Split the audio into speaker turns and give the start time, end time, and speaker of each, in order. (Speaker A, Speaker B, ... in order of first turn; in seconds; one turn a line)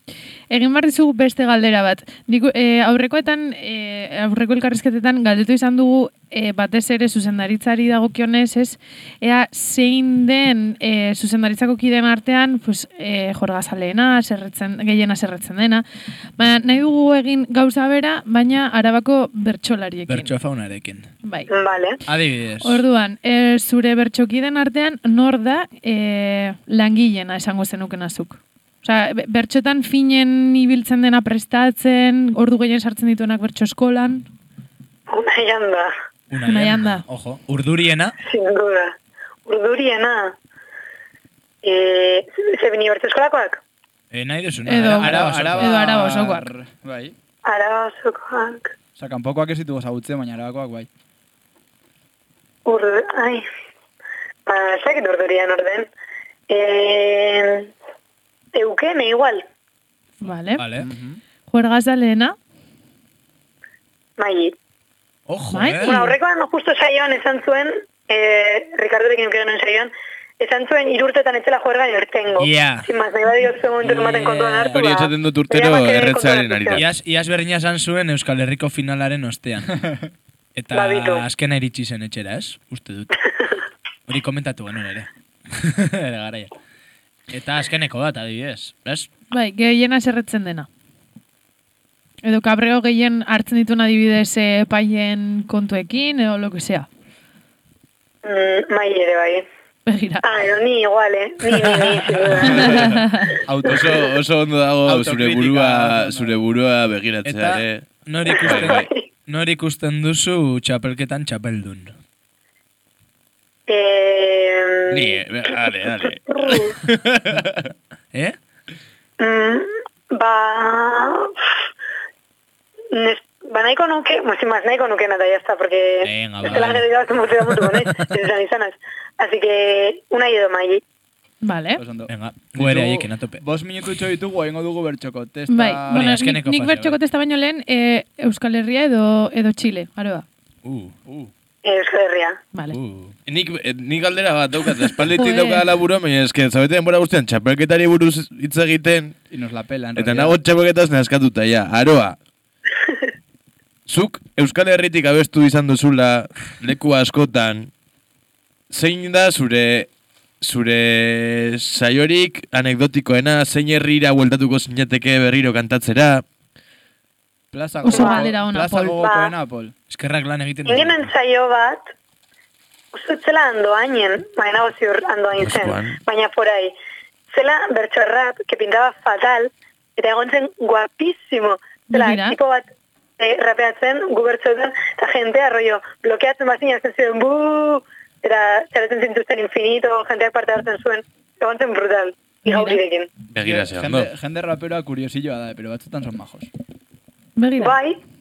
Speaker A: 0.5-15.8
Speaker A: 16.4-20.3
Speaker B: 20.1-21.1
Speaker C: 21.5-22.0
Speaker B: 22.1-22.8
Speaker A: 22.6-34.3
Speaker C: 35.1-35.9
Speaker B: 36.3-38.1
Speaker A: 36.5-37.0
Speaker C: 38.2-38.9
Speaker C: 39.5-40.3
Speaker C: 41.6-43.6
Speaker B: 44.1-45.7
Speaker A: 44.7-46.5
Speaker D: 44.7-47.1
Speaker C: 47.5-48.7
Speaker D: 49.0-50.9
Speaker C: 52.6-53.5
Speaker C: 54.5-55.9
Speaker C: 56.5-57.7
Speaker C: 58.5-59.5
Speaker A: 60.2-60.6
Speaker B: 60.6-60.9
Speaker D: 60.9-61.2
Speaker A: 61.5-62.4
Speaker C: 64.2-64.5
Speaker B: 65.3-66.0
Speaker A: 65.5-66.2
Speaker C: 65.8-76.8
Speaker B: 72.4-72.9
Speaker E: 74.7-76.9
Speaker B: 76.8-79.7
Speaker B: 80.6-83.1
Speaker C: 80.7-81.2
Speaker B: 84.1-86.5
Speaker B: 87.3-89.1
Speaker A: 89.3-90.7
Speaker A: 92.2-96.9
Speaker C: 98.2-99.5
Speaker A: 99.9-100.2
Speaker C: 100.2-103.0
Speaker B: 101.6-102.4
Speaker E: 102.4-103.0
Speaker A: 102.4-103.3
Speaker D: 103.5-103.8
Speaker E: 103.6-108.9
Speaker D: 104.9-106.4
Speaker B: 107.2-111.9
Speaker C: 108.3-109.0
Speaker C: 113.7-115.5
Speaker E: 114.9-117.7
Speaker C: 116.3-116.8
Speaker C: 119.2-121.3
Speaker C: 122.9-130.8
Speaker B: 126.0-126.9
Speaker B: 127.5-128.1
Speaker A: 131.4-131.8
Speaker D: 131.8-136.2
Speaker B: 132.1-133.4
Speaker A: 135.5-140.2
Speaker B: 135.9-137.0
Speaker B: 140.6-141.0
Speaker D: 141.1-141.3
Speaker C: 141.6-142.4
Speaker B: 142.7-143.2
Speaker E: 143.3-149.2
Speaker A: 145.1-145.7
Speaker D: 149.3-150.4
Speaker E: 150.0-152.2
Speaker E: 153.9-157.7
Speaker E: 158.7-159.9
Speaker E: 160.4-166.2
Speaker D: 167.5-169.7
Speaker A: 167.8-169.0
Speaker C: 167.9-168.3
Speaker C: 169.0-169.3
Speaker B: 169.9-171.1
Speaker C: 170.7-171.9
Speaker C: 172.9-176.8
Speaker E: 175.4-176.0
Speaker C: 177.3-182.7
Speaker A: 181.9-182.4
Speaker C: 183.2-193.1
Speaker A: 192.4-192.8
Speaker E: 193.3-194.1
Speaker D: 193.4-196.5
Speaker A: 197.4-197.8
Speaker C: 197.6-198.0